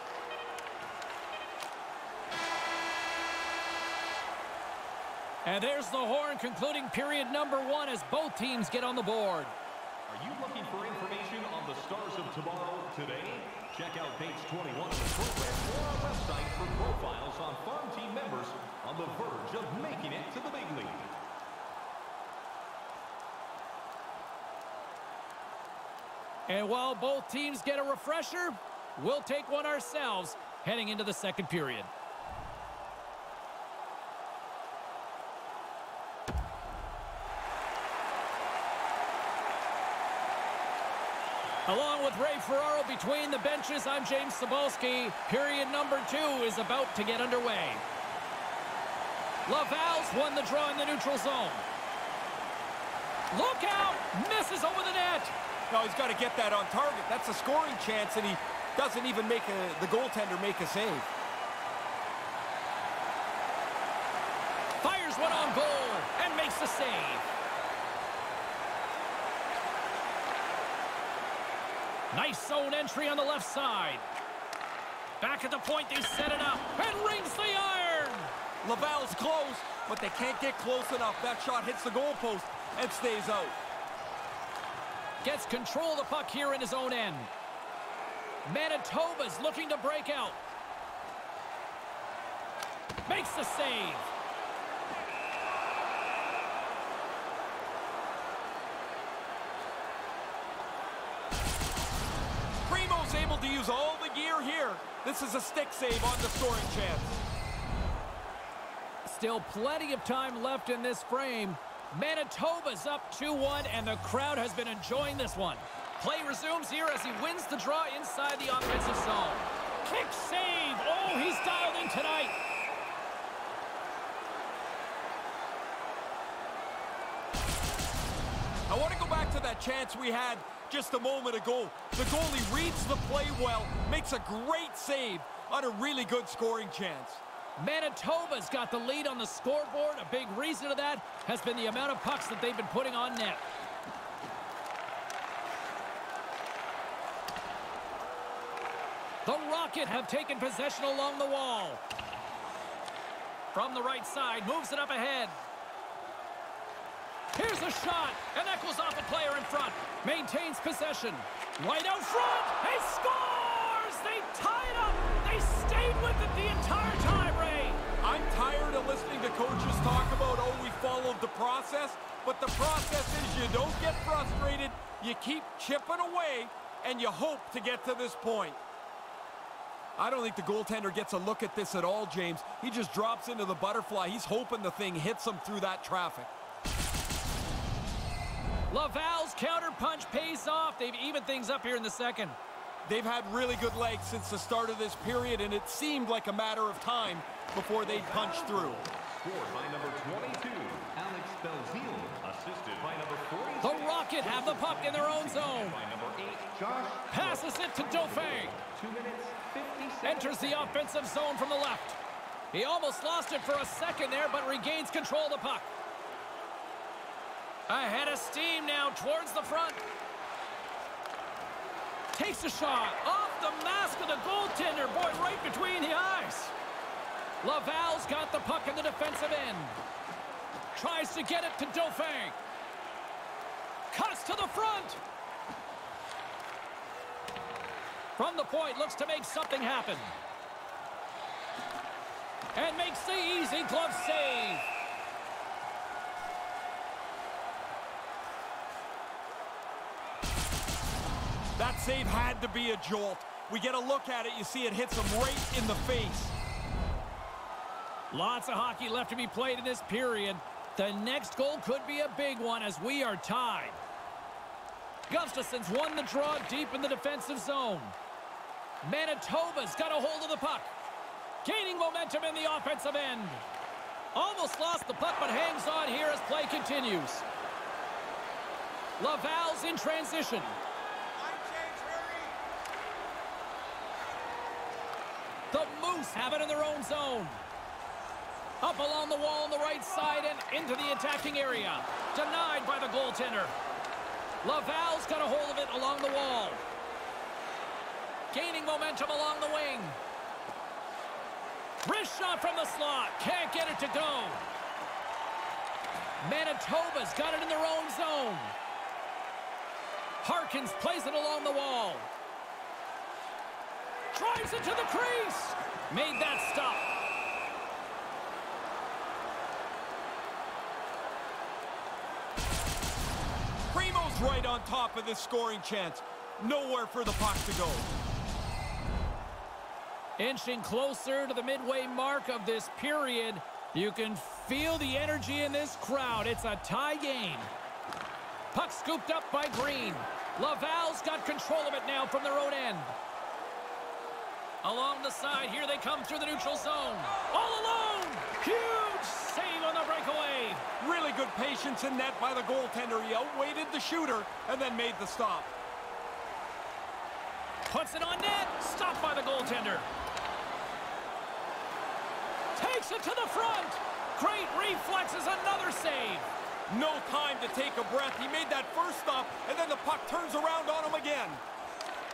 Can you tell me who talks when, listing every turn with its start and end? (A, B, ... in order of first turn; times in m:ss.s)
0:05.4-0:09.5 A
0:10.1-0:21.2 B
0:26.5-0:31.9 A
0:41.6-0:47.8 A
0:49.5-0:51.6 A
0:53.3-0:55.3 A
0:55.7-1:01.1 C
1:04.8-1:07.2 A
1:12.1-1:14.0 A
1:15.2-1:18.3 A
1:18.6-1:23.6 C
1:25.2-1:27.3 A
1:28.5-1:30.4 A
1:33.1-1:34.0 A
1:42.6-1:47.2 C
1:49.0-2:02.4 A
2:08.7-2:17.2 C
2:17.6-2:23.4 A
2:29.2-2:31.8 A
2:33.5-2:35.4 A
2:37.3-2:47.8 A
2:48.0-2:58.6 C
3:00.0-3:06.3 C
3:08.7-3:12.4 A
3:12.8-3:18.8 C
3:17.8-3:30.8 B
3:23.6-3:25.8 A
3:27.1-3:28.6 A
3:30.0-3:32.0 A
3:32.5-3:35.7 A
3:37.7-3:39.8 A
3:42.1-3:46.5 A
3:47.4-3:49.8 A
3:50.8-3:52.4 A
3:53.9-3:55.0 A
3:58.2-4:00.1 A
4:02.5-4:04.6 A
4:11.6-4:16.3 C
4:18.1-4:23.8 A
4:25.1-4:28.0 A
4:28.8-4:30.7 A
4:31.4-4:33.4 A
4:34.1-4:37.2 A
4:39.0-4:40.6 A
4:41.3-4:42.3 C
4:45.5-4:47.4 A
4:48.6-4:53.5 A
4:54.4-4:56.6 A
4:58.3-5:00.0 A
5:01.8-5:04.4 A
5:06.2-5:08.5 A
5:10.2-5:12.1 A
5:14.1-5:16.8 A
5:23.7-5:27.9 C
5:30.2-5:37.5 A
5:38.5-5:43.0 A
5:44.6-5:50.6 A
5:50.8-5:55.5 C
5:57.7-5:59.9 A
6:02.6-6:06.3 A
6:06.7-6:11.4 C